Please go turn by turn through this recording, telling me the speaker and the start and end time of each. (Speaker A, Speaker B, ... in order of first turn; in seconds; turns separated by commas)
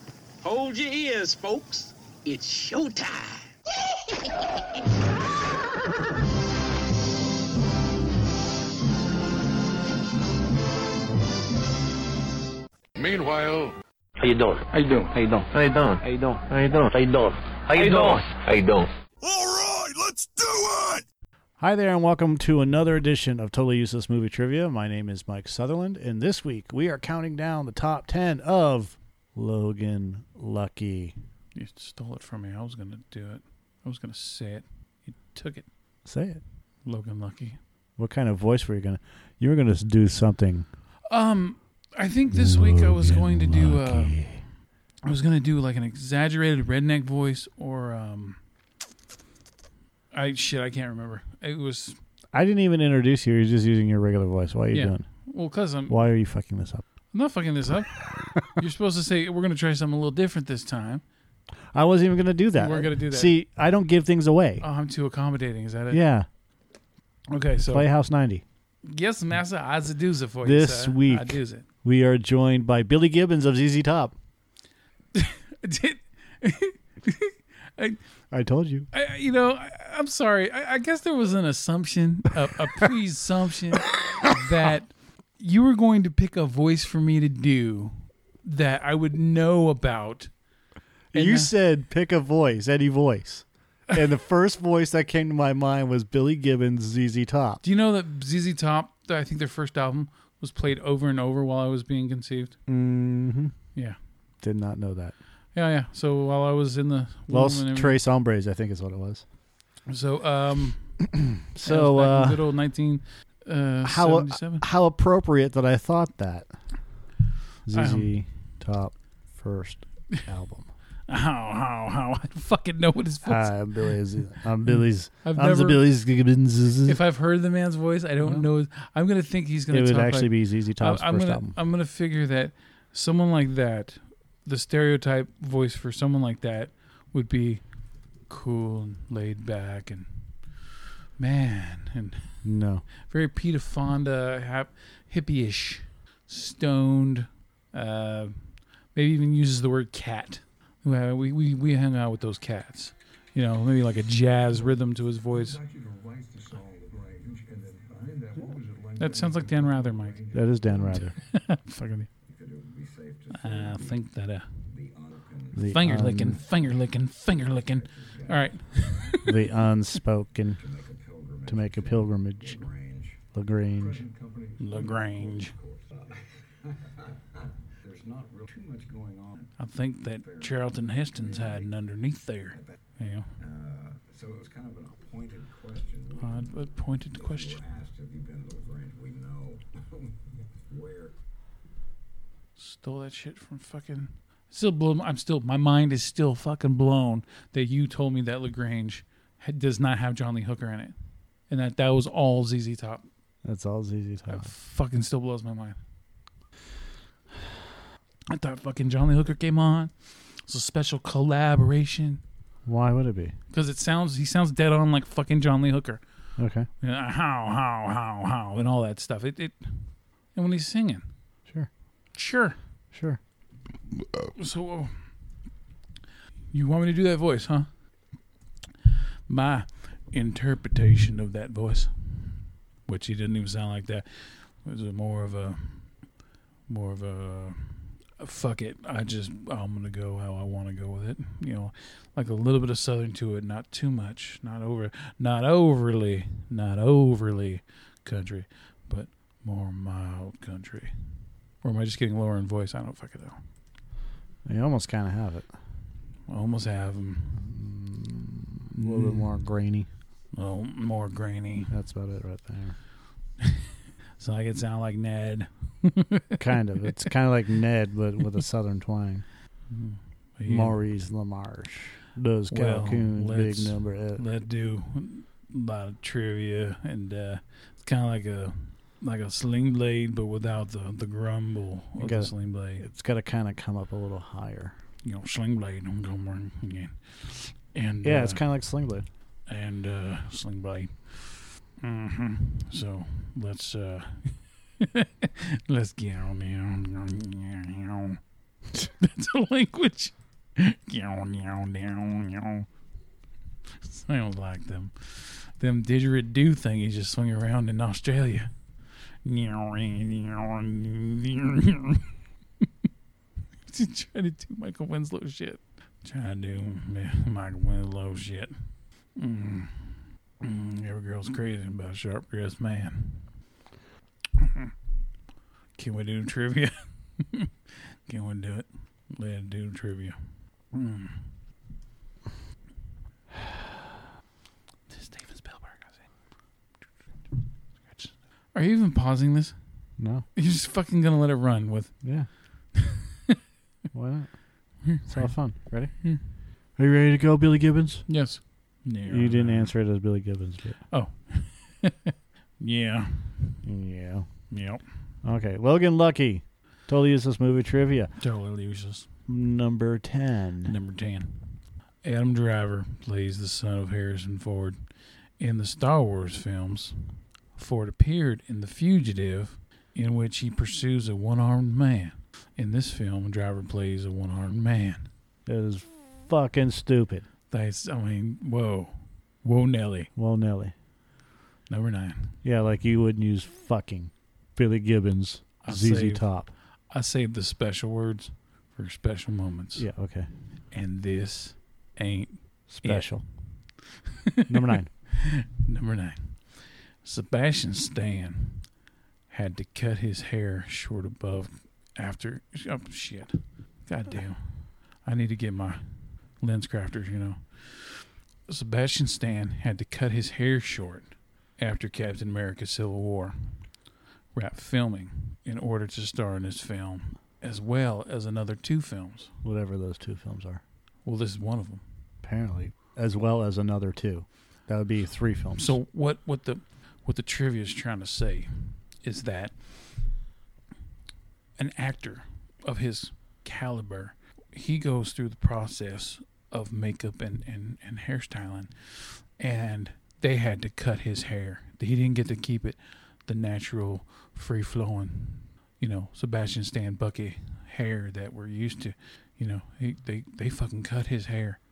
Speaker A: 0.4-3.4, Speaker B: 13.0-13.8, Speaker C: 14.2-18.9, Speaker B: 19.2-21.0, Speaker D: 21.6-31.1, Speaker E: 31.6-35.7, Speaker D: 36.0-36.4, Speaker E: 36.9-37.6, Speaker D: 38.0-40.7, Speaker E: 41.1-44.2, Speaker D: 42.3-44.4, Speaker E: 45.0-48.4, Speaker E: 50.1-52.0, Speaker D: 52.3-55.1, Speaker E: 54.7-56.0, Speaker D: 55.9-56.8, Speaker E: 57.1-61.0, Speaker D: 61.7-64.7, Speaker E: 62.5-63.4, Speaker E: 64.6-66.0, Speaker D: 65.9-66.3, Speaker E: 67.3-67.9, Speaker D: 67.7-68.4, Speaker E: 68.8-71.7, Speaker D: 70.4-74.2, Speaker E: 75.1-78.0, Speaker D: 78.3-78.9, Speaker E: 78.9-90.3, Speaker E: 91.1-91.5, Speaker D: 91.1-97.6, Speaker E: 97.6-102.5, Speaker D: 102.7-103.5, Speaker D: 104.4-105.2, Speaker E: 105.5-108.0, Speaker D: 107.3-109.2, Speaker E: 109.9-110.9, Speaker D: 111.1-112.5, Speaker E: 111.6-114.7, Speaker D: 113.8-116.5, Speaker D: 117.7-120.7, Speaker E: 117.7-118.2, Speaker E: 121.1-125.9, Speaker D: 123.2-127.0, Speaker E: 126.9-137.6, Speaker D: 128.2-128.5, Speaker D: 129.7-131.6, Speaker E: 138.3-140.3, Speaker E: 141.2-142.4, Speaker D: 142.4-142.9, Speaker E: 143.1-155.6, Speaker F: 155.6-160.6, Speaker E: 159.0-160.3, Speaker D: 160.3-161.2, Speaker E: 160.9-162.1, Speaker F: 162.3-163.8, Speaker E: 163.3-164.5, Speaker F: 164.7-165.6, Speaker D: 165.5-166.4, Speaker E: 165.7-169.4, Speaker F: 167.9-169.2, Speaker D: 169.2-170.6, Speaker F: 170.6-173.2, Speaker D: 171.5-172.6, Speaker D: 173.3-174.1, Speaker F: 173.8-176.1, Speaker E: 174.6-175.6, Speaker F: 177.8-179.4, Speaker E: 179.6-183.3, Speaker F: 183.4-186.2, Speaker E: 186.2-187.6, Speaker F: 187.3-189.8, Speaker F: 190.7-191.1, Speaker E: 192.6-200.9, Speaker E: 201.5-203.1, Speaker D: 203.4-204.5, Speaker E: 204.3-205.8, Speaker E: 208.3-212.2, Speaker D: 212.7-213.3, Speaker E: 213.5-216.0, Speaker D: 216.4-216.7, Speaker E: 216.8-221.1, Speaker E: 222.1-222.6, Speaker D: 222.9-223.2, Speaker E: 224.3-225.1, Speaker E: 226.5-227.7, Speaker E: 229.3-235.9, Speaker E: 236.7-250.9, Speaker E: 251.6-253.4, Speaker D: 254.4-255.5, Speaker E: 256.3-257.4, Speaker D: 257.4-259.9, Speaker E: 258.8-259.4, Speaker E: 260.3-261.7, Speaker D: 261.7-262.8, Speaker E: 263.4-267.0, Speaker D: 266.4-269.3, Speaker E: 269.7-270.8, Speaker D: 270.5-274.2, Speaker E: 272.5-282.9, Speaker D: 282.0-284.8, Speaker E: 285.0-288.4, Speaker D: 288.0-289.1, Speaker E: 289.5-298.2, Speaker E: 298.7-302.7, Speaker E: 303.8-308.5, Speaker E: 309.2-312.7, Speaker E: 313.7-318.5, Speaker E: 319.2-323.3, Speaker E: 324.4-324.7, Speaker E: 325.8-330.2, Speaker E: 330.7-331.4, Speaker E: 334.9-336.1, Speaker E: 337.8-339.6, Speaker D: 340.0-340.3, Speaker E: 340.4-342.0, Speaker E: 342.8-343.3, Speaker D: 343.9-345.9, Speaker E: 344.8-345.4, Speaker E: 346.0-346.3, Speaker D: 346.8-348.1, Speaker E: 348.1-349.7, Speaker D: 349.1-350.8, Speaker E: 350.9-353.6, Speaker D: 353.6-354.3, Speaker E: 354.5-354.9, Speaker D: 355.2-358.1, Speaker E: 358.2-359.1, Speaker D: 359.3-360.8, Speaker E: 360.6-364.8, Speaker E: 365.4-375.1, Speaker D: 375.5-377.2, Speaker E: 377.5-380.1, Speaker D: 380.2-380.7, Speaker E: 381.7-382.4, Speaker D: 382.4-386.5, Speaker E: 385.6-386.3, Speaker E: 386.9-389.9, Speaker D: 389.8-390.3, Speaker E: 390.7-393.1, Speaker D: 392.7-393.2, Speaker E: 394.1-398.7, Speaker D: 394.5-394.9, Speaker E: 399.3-405.8, Speaker E: 406.4-413.6, Speaker E: 414.3-419.3, Speaker D: 419.4-420.6, Speaker E: 421.1-421.8, Speaker D: 422.2-425.8, Speaker E: 425.6-429.8, Speaker E: 431.6-451.6